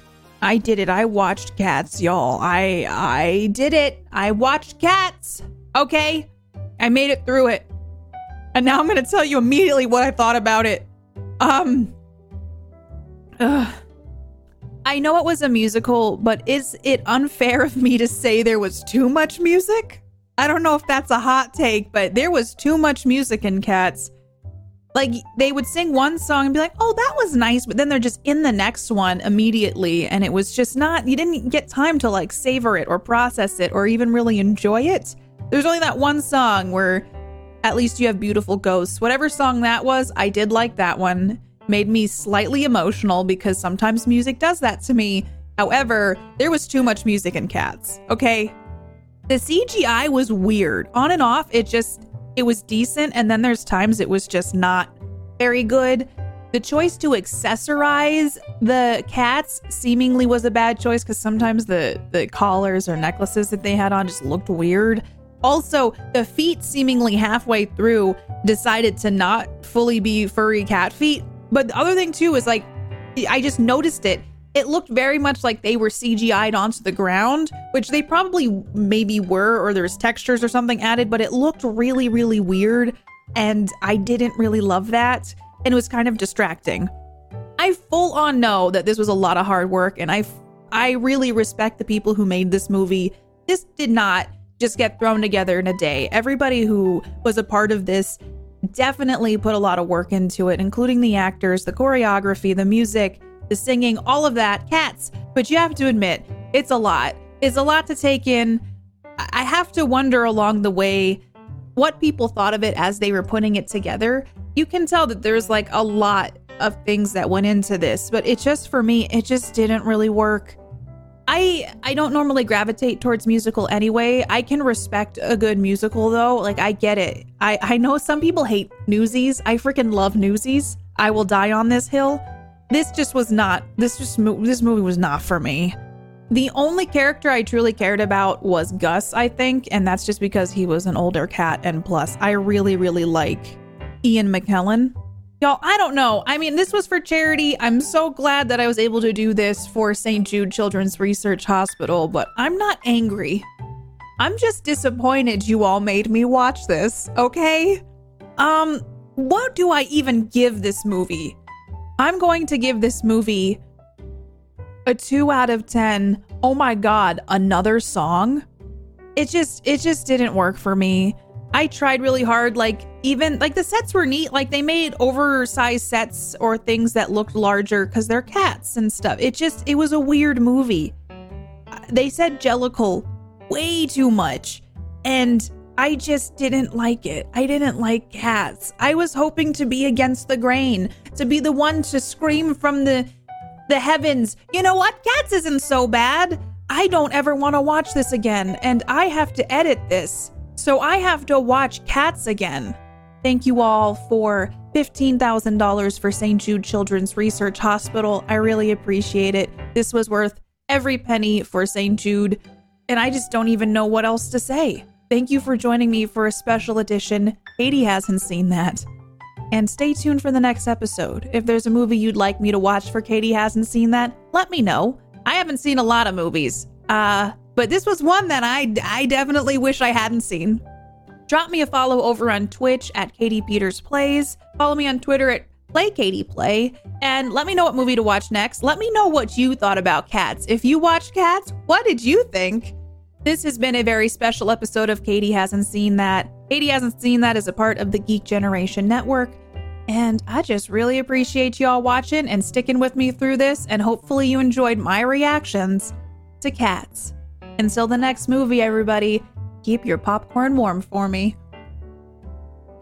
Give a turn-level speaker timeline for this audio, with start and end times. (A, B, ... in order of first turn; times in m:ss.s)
0:00.4-0:06.3 A
0:06.8-0:07.7 A
0:08.5-0:10.9 A
0:11.4-0:11.9 A
0:13.4-0:13.8 A
0:14.8-0:24.1 A
0:24.9-0:37.1 A
0:37.6-0:48.5 A
0:49.3-1:26.9 A
1:27.6-1:48.6 A
1:49.2-1:51.2 A
1:51.8-2:00.6 A
2:01.3-2:15.8 A
2:16.3-2:33.4 A
2:34.2-2:37.8 A
2:38.4-2:41.4 A
2:42.0-2:43.6 A
2:44.8-2:48.4 A
2:49.2-3:00.9 A
3:01.7-3:13.1 A
3:13.7-3:38.8 A
3:39.5-3:50.6 A
3:51.3-4:21.4 A